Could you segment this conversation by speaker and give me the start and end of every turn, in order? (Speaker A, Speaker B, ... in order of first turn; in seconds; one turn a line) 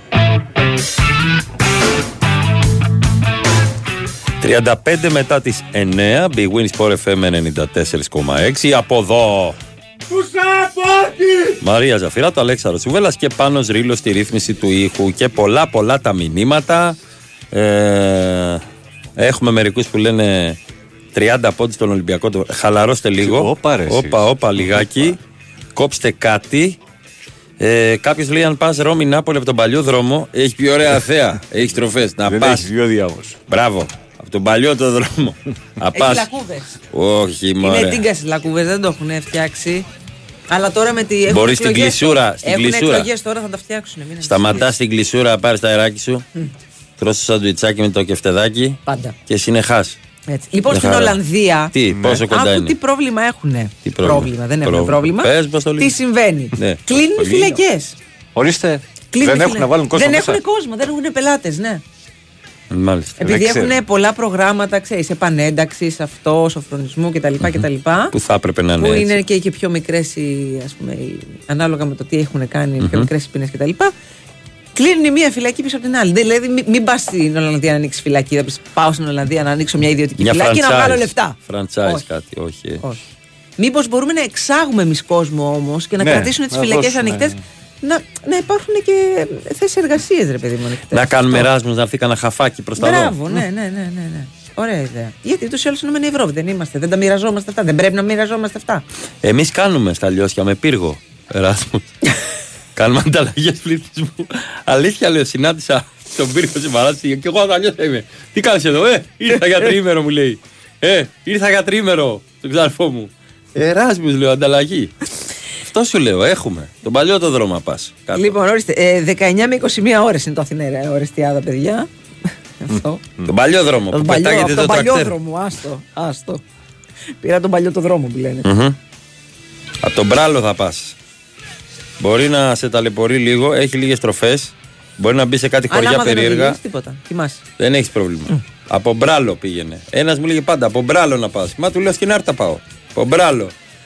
Speaker A: 4.4-9.6
Speaker A: 11.6-17.0
Speaker A: 17.5-18.6
Speaker A: 19.1-20.6
Speaker A: 21.1-25.2
Speaker B: 23.2-24.9
Speaker A: 25.8-26.8
Speaker A: 27.6-32.7
Speaker B: 32.2-33.4
Speaker A: 33.5-36.3
Speaker C: 35.9-36.7
Speaker A: 36.9-38.0
Speaker C: 37.6-39.9
Speaker C: 40.5-44.7
Speaker A: 41.3-43.1
Speaker A: 44.2-46.2
Speaker A: 47.0-50.0
Speaker C: 48.9-49.1
Speaker C: 50.3-58.0
Speaker A: 50.7-51.2
Speaker A: 51.7-52.7
Speaker B: 51.9-52.2
Speaker A: 53.8-55.9
Speaker A: 56.5-56.8
Speaker B: 57.1-57.6
Speaker B: 58.3-60.4
Speaker C: 59.1-61.8
Speaker A: 62.7-63.4
Speaker C: 63.2-68.1
Speaker B: 63.2-63.8
Speaker A: 68.1-69.2
Speaker C: 68.8-73.9
Speaker A: 72.8-73.1
Speaker C: 74.7-82.0
Speaker A: 80.2-82.8
Speaker C: 83.6-91.5
Speaker B: 86.0-87.4
Speaker A: 90.9-93.2
Speaker C: 92.8-98.8
Speaker A: 99.2-101.9
Speaker A: 102.8-114.9
Speaker A: 115.6-118.3
Speaker C: 118.1-121.9
Speaker C: 122.6-123.0
Speaker A: 123.2-125.1
Speaker C: 123.9-126.4
Speaker C: 127.2-128.5
Speaker A: 128.4-128.8
Speaker A: 129.8-130.9
Speaker A: 132.0-136.6
Speaker C: 135.7-137.4
Speaker A: 137.6-143.5